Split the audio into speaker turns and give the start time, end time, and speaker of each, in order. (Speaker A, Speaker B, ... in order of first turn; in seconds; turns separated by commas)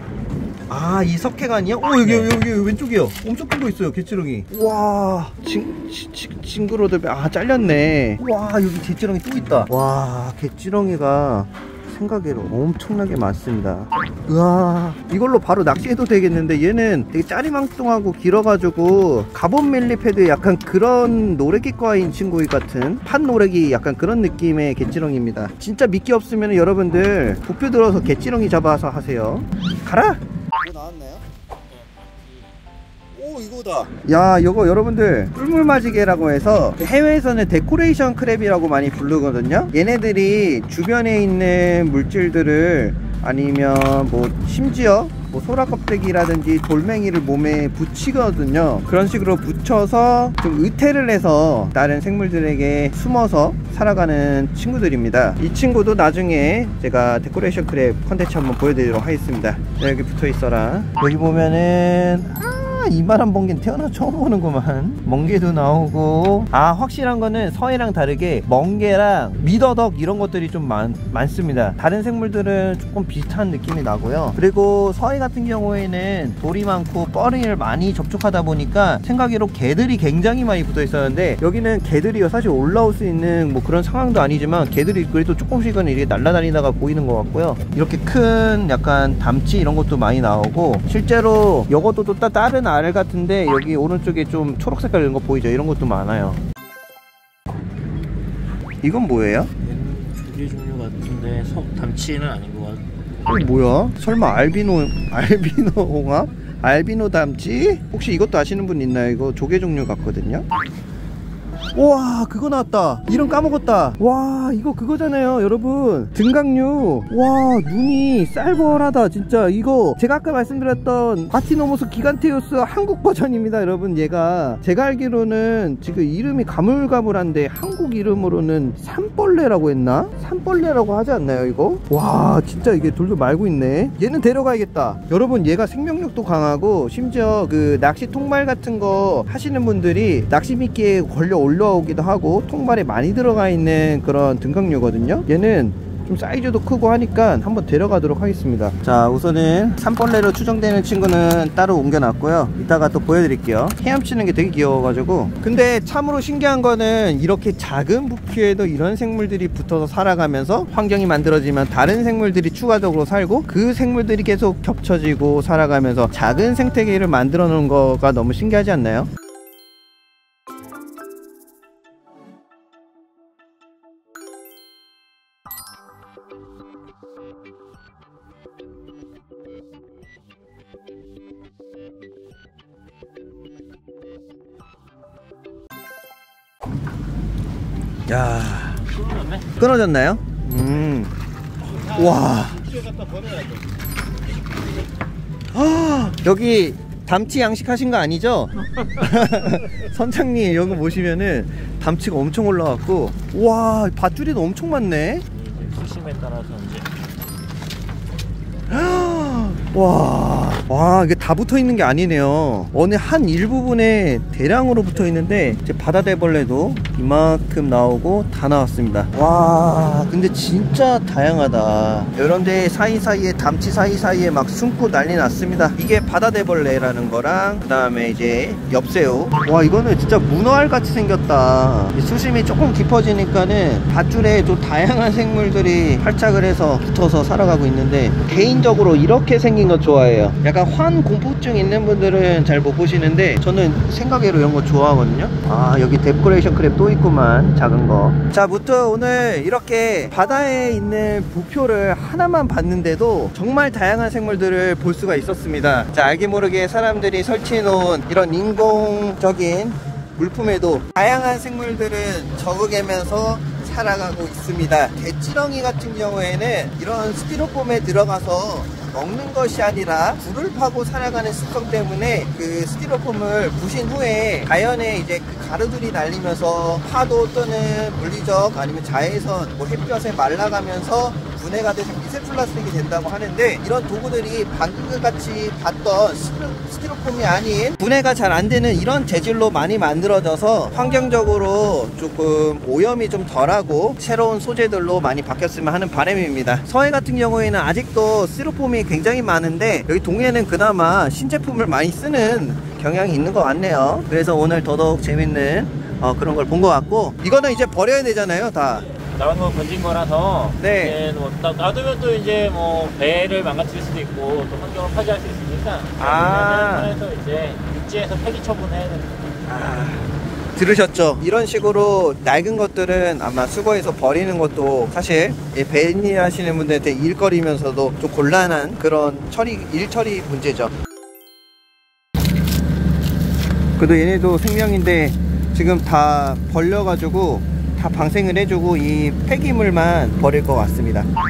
Speaker A: 0.7-31.2, Speaker B: 2.0-2.4, Speaker B: 31.7-32.4, Speaker A: 33.1-96.4, Speaker A: 98.8-99.5, Speaker B: 99.6-102.9, Speaker A: 103.3-110.5, Speaker A: 111.7-169.1, Speaker A: 188.1-188.8, Speaker B: 188.8-189.6, Speaker A: 189.6-191.1, Speaker A: 191.9-192.7, Speaker B: 192.6-193.6, Speaker A: 195.5-205.2, Speaker B: 205.3-206.9, Speaker A: 208.7-308.8, Speaker B: 308.8-319.4, Speaker A: 310.6-311.0, Speaker A: 316.0-317.0, Speaker A: 319.5-330.7, Speaker A: 333.8-341.1